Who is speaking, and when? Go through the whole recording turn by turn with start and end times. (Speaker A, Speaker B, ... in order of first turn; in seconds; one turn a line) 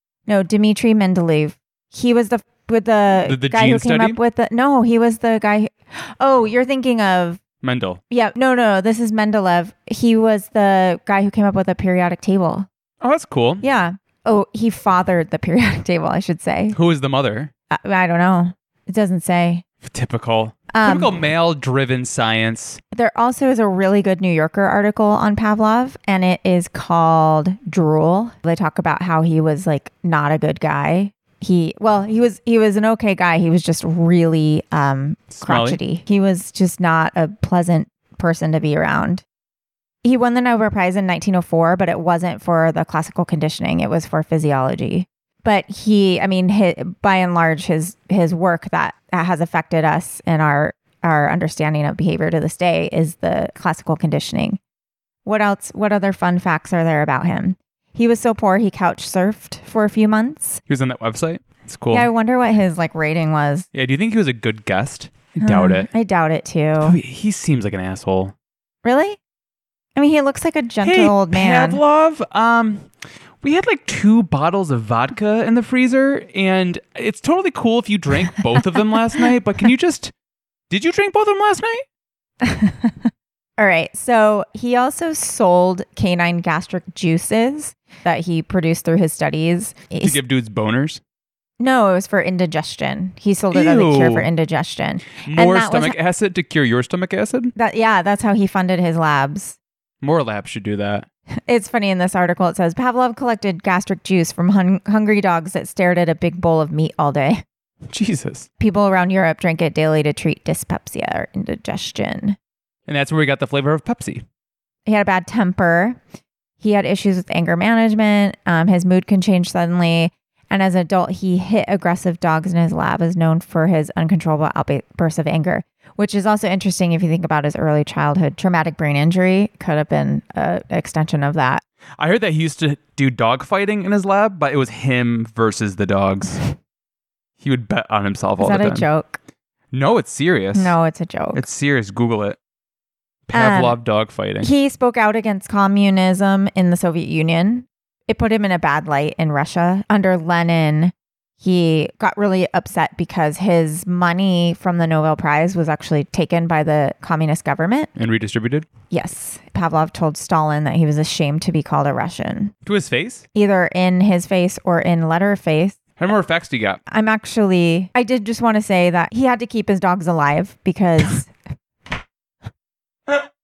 Speaker A: 0.3-7.4
Speaker B: 3.2-4.2
Speaker B: 7.6-8.0
Speaker A: 8.1-12.7
Speaker B: 13.0-13.6
Speaker A: 13.6-16.8
Speaker B: 16.7-17.5
Speaker A: 17.7-19.6
Speaker B: 19.8-22.8
Speaker A: 20.7-21.2
Speaker A: 22.9-39.2
Speaker B: 35.3-35.8
Speaker A: 40.0-54.6
Speaker A: 55.2-60.6
Speaker B: 60.7-62.1
Speaker A: 61.9-63.6
Speaker B: 63.7-65.9
Speaker A: 65.4-67.0
Speaker B: 66.8-68.3
Speaker A: 68.8-69.2
Speaker A: 70.0-71.8
Speaker B: 70.8-72.9
Speaker B: 73.4-80.1
Speaker B: 80.7-81.8
Speaker A: 82.4-90.2
Speaker B: 90.0-91.0
Speaker A: 91.6-96.0
Speaker B: 93.5-94.3
Speaker B: 95.2-97.5
Speaker A: 97.5-99.6
Speaker B: 100.0-101.0
Speaker A: 101.5-107.4
Speaker B: 107.9-108.5
Speaker A: 108.6-112.4
Speaker B: 112.9-114.2
Speaker A: 114.8-116.0
Speaker A: 116.6-131.6
Speaker B: 132.0-136.5
Speaker B: 137.4-138.8
Speaker A: 138.4-139.2
Speaker B: 139.7-140.7
Speaker A: 140.5-141.4
Speaker B: 141.3-142.4
Speaker B: 143.3-144.5
Speaker A: 143.3-143.8
Speaker A: 144.4-157.9
Speaker B: 157.9-158.7
Speaker A: 158.9-162.5
Speaker B: 162.7-163.2
Speaker A: 163.3-165.8
Speaker B: 166.0-166.8
Speaker A: 166.9-171.3